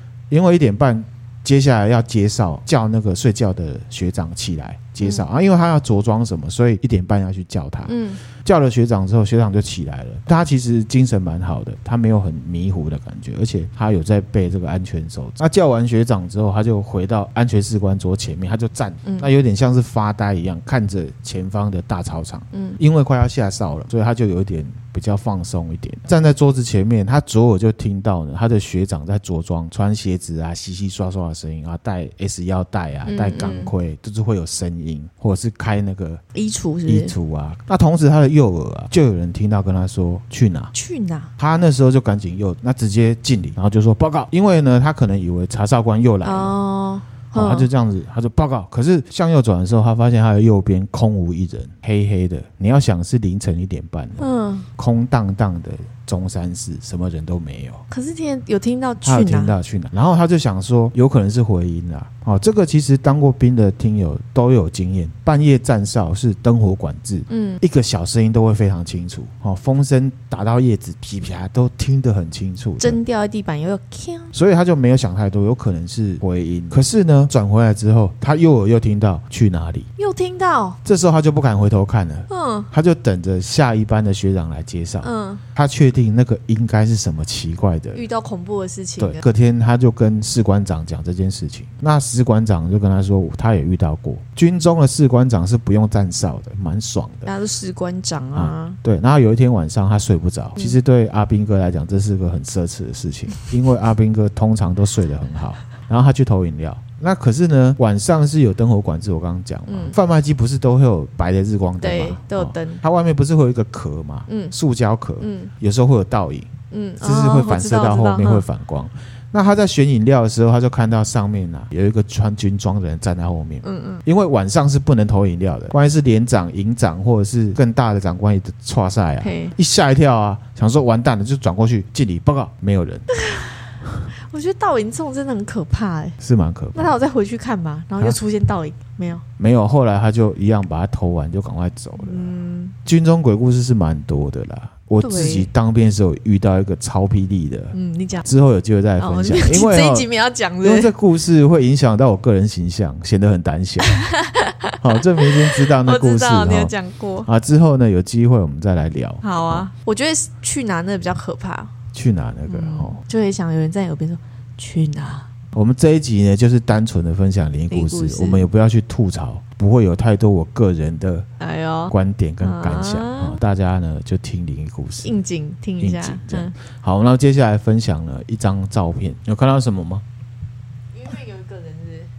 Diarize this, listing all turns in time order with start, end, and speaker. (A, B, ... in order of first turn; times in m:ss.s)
0:00.3-0:36.2 A
0:05.0-0:05.3 B
0:07.9-0:08.2 B
0:22.5-0:22.8 B
0:33.0-0:33.7 B
0:36.3-0:37.1 B
0:36.9-0:40.7 A
0:40.7-0:41.3 B
0:41.4-0:46.6 A
0:46.2-0:47.7 B
0:47.3-0:57.8 A
0:54.2-0:54.7 B
0:57.9-0:59.6 B
0:59.0-1:13.0 A
1:07.3-1:07.6 B
1:12.8-1:14.3 B
1:14.3-1:19.9 A
1:20.0-1:20.8 B
1:20.8-1:28.0 A
1:22.3-1:22.7 B
1:25.0-1:25.4 B
1:27.9-1:29.2 B
1:29.0-1:37.3 A
1:37.3-1:38.8 B
1:38.4-2:13.1 A
1:49.7-1:50.0 B
1:51.8-1:52.8 B
1:54.3-1:54.6 B
1:55.2-1:55.5 B
1:56.7-1:58.5 B
2:03.6-2:04.0 B
2:09.2-2:09.6 B
2:13.1-2:16.2 B
2:16.2-2:17.0 A
2:16.7-2:19.2 B
2:19.4-2:22.3 A
2:22.0-2:22.7 B
2:22.8-2:30.1 A
2:25.0-2:25.5 B
2:27.7-2:28.3 B
2:29.0-2:30.9 B
2:30.6-2:34.0 A
2:33.8-2:37.3 B
2:34.8-2:36.7 A
2:37.2-2:39.7 A
2:39.2-2:41.7 B
2:41.9-2:43.0 A
2:42.5-2:45.3 B
2:45.5-2:51.3 A
2:47.7-2:48.5 B
2:51.4-2:53.4 B
2:51.9-2:55.2 A
2:55.0-2:56.5 B
2:55.8-3:00.0 A
3:00.9-3:02.1 B